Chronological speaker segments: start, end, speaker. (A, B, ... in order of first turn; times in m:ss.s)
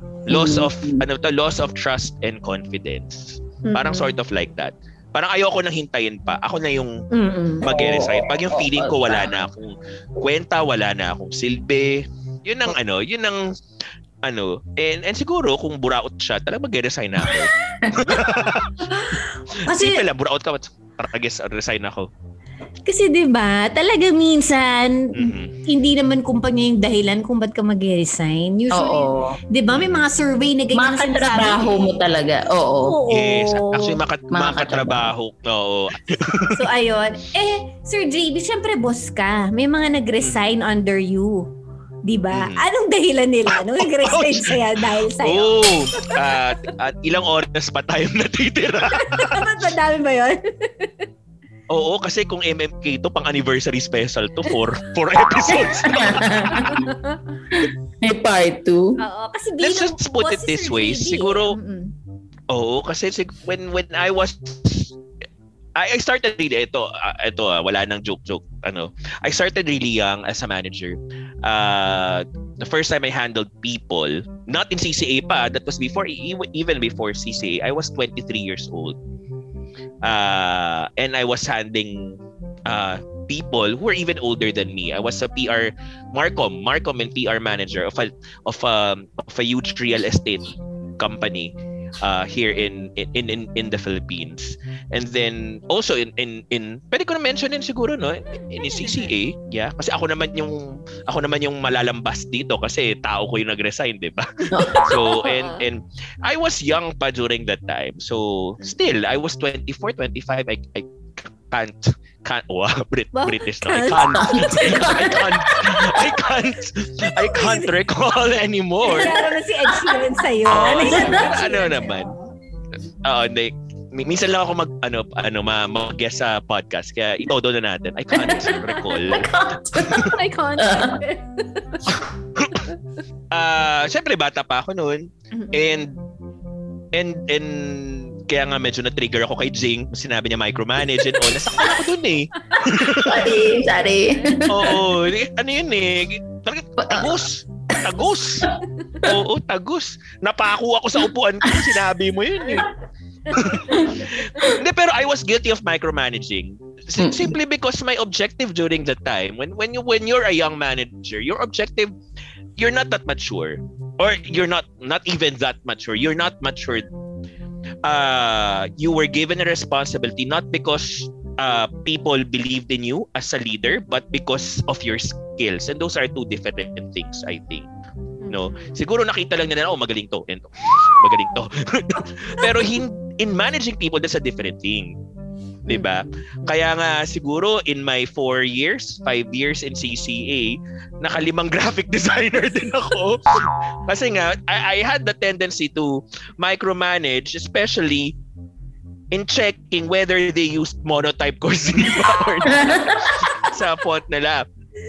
0:00.3-0:07.0 A
0:00.3-0:01.0 B
0:03.6-0:04.1 C
0:07.1-0:07.7 C
0:07.6-0:13.4 A
0:07.6-0:09.3 B
0:14.2-0:18.9 A
0:17.8-0:18.2 B
0:18.9-0:20.0 C
0:19.6-0:22.1 A
0:22.9-0:32.0 C
0:25.2-0:25.6 A
0:28.7-0:29.3 B
0:29.7-0:30.0 A
0:30.7-0:33.0 B
0:32.8-0:34.0 C
0:33.1-0:36.6 A
0:34.3-0:35.1 B
0:36.5-0:41.5 C
0:40.2-0:40.5 A
0:42.1-0:46.2 C
0:42.3-0:42.6 A
0:43.8-0:44.6 A
0:45.2-0:49.5 A
0:48.8-0:51.1 C
0:51.7-0:56.8 A
0:55.6-0:56.8 B
0:56.4-0:57.2 C
0:57.5-0:58.9 B
0:59.0-1:01.9 C
0:59.6-1:01.6 A
1:02.5-1:05.0 A
1:05.8-1:19.0 A
1:20.0-1:59.2 A
1:38.6-1:39.1 C
1:44.5-1:45.6 C
1:44.5-1:44.9 B
1:53.1-1:55.6 C
1:54.3-1:55.4 B
1:57.1-1:57.7 C
1:58.8-2:02.3 C
1:59.7-2:00.0 B
2:00.5-2:02.1 A
2:00.9-2:01.2 B
2:03.0-2:09.3 A
2:08.5-2:08.8 C
2:09.0-2:11.0 B
2:09.8-2:12.0 C
2:09.8-2:10.1 A
2:11.9-2:12.7 A
2:13.3-2:15.9 A
2:15.3-2:15.6 C
2:16.9-2:23.4 A
2:23.0-2:24.9 B
2:24.5-2:32.7 A
2:26.8-2:27.2 B
2:28.8-2:29.0 C
2:33.3-2:34.6 C
2:33.3-2:41.9 A
2:37.0-2:37.4 B
2:42.6-2:46.9 A
2:47.8-2:57.7 A
2:58.2-2:58.8 C
2:58.3-3:04.9 A
3:02.0-3:02.6 C
3:05.7-3:18.2 A
3:05.7-3:06.1 C
3:19.1-3:24.5 A
3:22.5-3:23.3 B